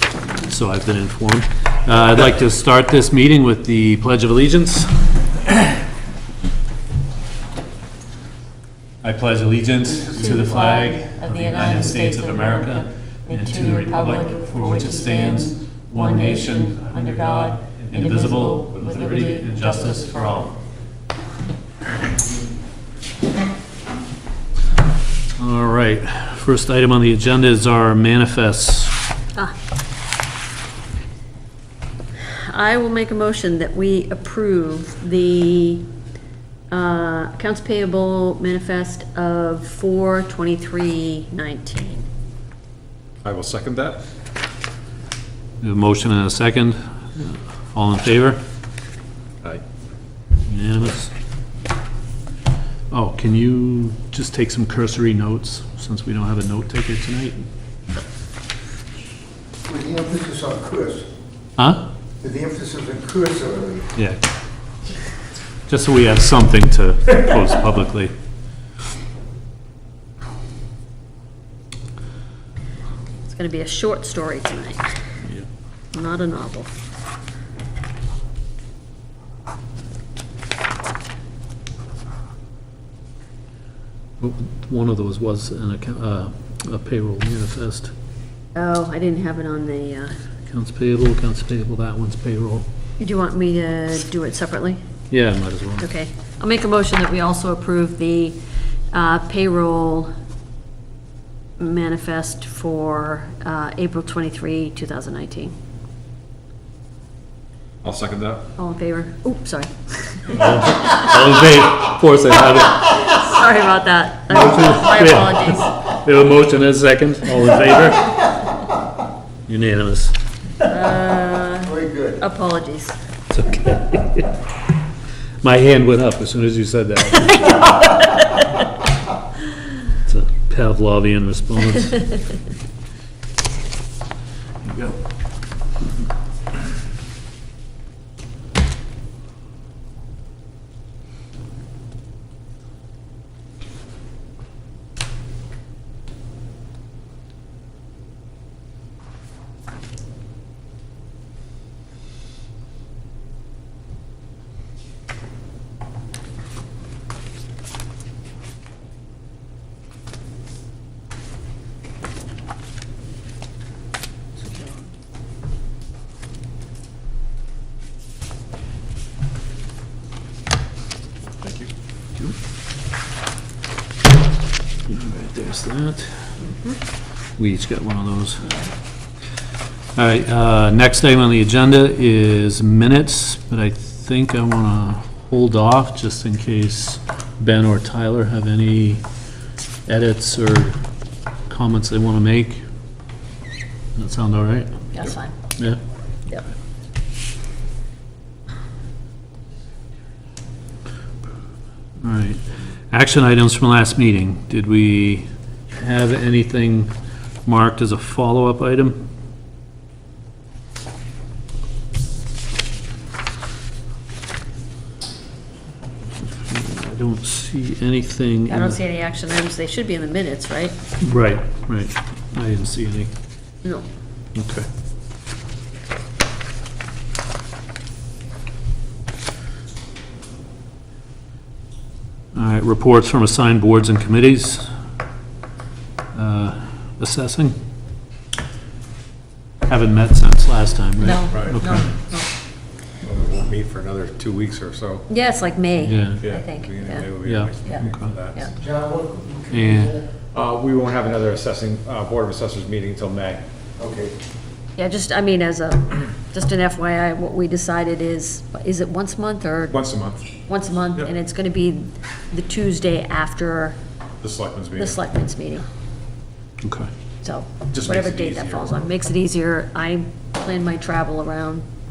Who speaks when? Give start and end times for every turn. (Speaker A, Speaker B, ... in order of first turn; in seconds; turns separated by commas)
Speaker A: 0.5-5.0, Speaker A: 9.0-20.5, Speaker B: 10.1-20.5, Speaker A: 25.4-28.9, Speaker B: 32.2-35.9, Speaker B: 36.7-42.0, Speaker C: 43.2-44.0, Speaker A: 45.6-48.4, Speaker A: 50.5-51.1, Speaker A: 52.9-57.4, Speaker D: 59.7-61.1, Speaker A: 61.6-61.9, Speaker D: 62.2-63.9, Speaker A: 65.7-68.1, Speaker B: 73.2-74.9, Speaker B: 75.9-76.7, Speaker A: 84.2-87.9, Speaker B: 88.5-90.2, Speaker A: 90.5-92.6, Speaker B: 93.0-94.8, Speaker A: 95.1-95.8, Speaker B: 95.8-98.4, Speaker B: 98.9-100.1, Speaker B: 101.6-105.5, Speaker C: 107.8-108.5, Speaker B: 108.6-110.9, Speaker A: 110.3-112.9, Speaker B: 112.8-115.8, Speaker A: 114.3-118.3, Speaker A: 119.5-120.1, Speaker B: 120.6-123.0, Speaker D: 121.7-122.2, Speaker A: 123.3-124.3, Speaker A: 125.4-127.7, Speaker A: 129.9-132.2, Speaker A: 134.6-135.0, Speaker C: 171.4-171.7, Speaker A: 174.9-176.2, Speaker B: 176.5-176.8, Speaker A: 177.4-178.5, Speaker A: 179.9-189.0, Speaker A: 189.9-190.8, Speaker A: 191.5-192.6, Speaker A: 193.9-194.8, Speaker B: 194.9-195.3, Speaker A: 202.0-206.9, Speaker A: 207.4-209.0, Speaker A: 216.2-218.8, Speaker B: 218.5-220.8, Speaker A: 221.0-223.1, Speaker A: 224.3-224.7, Speaker A: 232.3-234.7, Speaker A: 236.1-237.6, Speaker A: 239.7-241.9, Speaker B: 241.0-242.3, Speaker C: 241.3-241.6, Speaker C: 243.0-245.1, Speaker B: 245.1-247.1, Speaker A: 245.8-246.3, Speaker C: 246.2-248.5, Speaker A: 247.2-248.1, Speaker B: 247.6-248.5, Speaker D: 248.6-249.9, Speaker A: 249.5-250.0, Speaker C: 250.3-253.4, Speaker D: 253.8-254.1, Speaker B: 254.8-259.8, Speaker C: 259.7-260.2, Speaker B: 260.4-263.8, Speaker C: 264.2-265.0, Speaker B: 264.8-265.6, Speaker A: 266.6-266.9, Speaker B: 267.2-271.6, Speaker C: 267.7-268.9